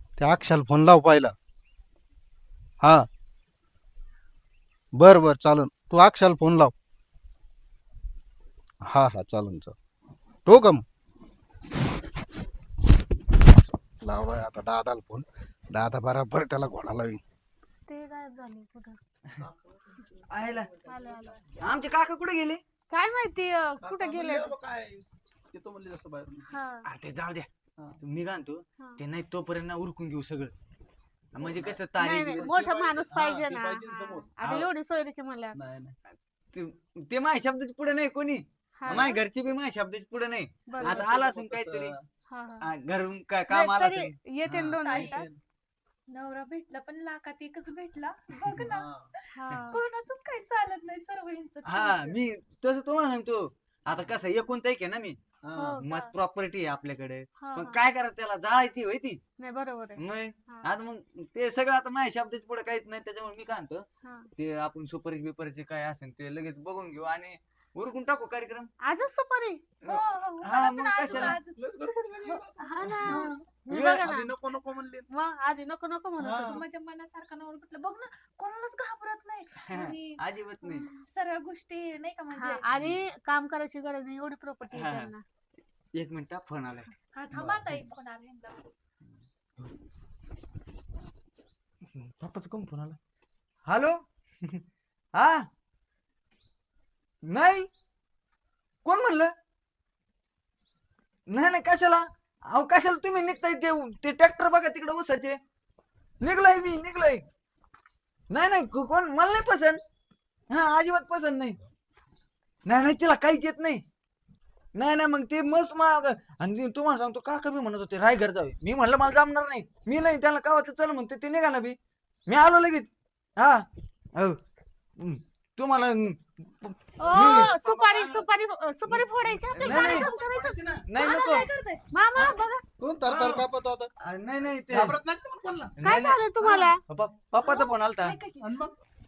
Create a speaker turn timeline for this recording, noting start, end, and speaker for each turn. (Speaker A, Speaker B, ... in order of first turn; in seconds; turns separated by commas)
Speaker A: 0.2-1.3, Speaker A: 5.0-6.7, Speaker A: 8.9-9.7, Speaker A: 10.5-10.8, Speaker A: 14.0-17.2, Speaker B: 17.9-19.0, Speaker C: 19.4-21.5, Speaker D: 20.3-20.7, Speaker B: 20.9-21.4, Speaker D: 21.6-22.6, Speaker B: 22.9-24.6, Speaker C: 23.8-26.5, Speaker B: 26.5-26.9, Speaker D: 26.9-27.5, Speaker D: 28.0-30.5, Speaker D: 31.4-32.5, Speaker C: 31.4-34.7, Speaker B: 32.0-35.6, Speaker C: 35.6-36.0, Speaker D: 36.5-42.0, Speaker B: 38.8-39.2, Speaker B: 40.7-41.0, Speaker C: 40.9-42.0, Speaker B: 42.3-42.7, Speaker D: 42.6-44.1, Speaker B: 43.5-45.2, Speaker C: 44.5-45.4, Speaker E: 44.8-45.2, Speaker E: 46.1-48.9, Speaker C: 48.5-49.1, Speaker B: 49.3-49.8, Speaker E: 49.7-52.2, Speaker D: 51.7-55.2, Speaker C: 55.5-55.8, Speaker B: 55.6-56.1, Speaker D: 55.8-59.2, Speaker B: 57.4-57.8, Speaker B: 59.4-60.7, Speaker D: 60.0-63.9, Speaker B: 64.0-64.3, Speaker D: 64.4-68.7, Speaker B: 68.8-69.6, Speaker D: 69.8-71.3, Speaker E: 69.8-72.3, Speaker C: 71.1-75.1, Speaker B: 72.6-74.3, Speaker D: 73.0-74.1, Speaker B: 75.1-76.6, Speaker E: 76.4-82.7, Speaker D: 79.7-80.9, Speaker B: 82.3-85.2, Speaker D: 84.7-85.1, Speaker D: 86.0-86.9, Speaker E: 87.1-88.7, Speaker D: 91.9-93.0, Speaker D: 93.7-94.6, Speaker D: 95.2-95.5, Speaker D: 97.3-97.7, Speaker D: 98.8-99.3, Speaker D: 101.3-105.4, Speaker D: 106.2-107.2, Speaker D: 108.3-109.8, Speaker D: 110.5-111.6, Speaker D: 112.7-113.8, Speaker D: 114.8-121.8, Speaker D: 122.3-124.4, Speaker D: 125.0-127.7, Speaker B: 127.0-130.6, Speaker A: 127.2-127.4, Speaker C: 127.9-128.2, Speaker D: 129.6-130.1, Speaker E: 129.6-130.1, Speaker C: 130.0-130.8, Speaker D: 130.7-131.5, Speaker E: 130.9-132.4, Speaker B: 131.9-132.6, Speaker A: 132.8-133.9, Speaker D: 133.1-133.4, Speaker D: 134.0-135.0, Speaker C: 134.7-135.7, Speaker D: 135.8-138.2, Speaker B: 135.8-136.8, Speaker E: 137.4-138.7, Speaker C: 138.4-138.7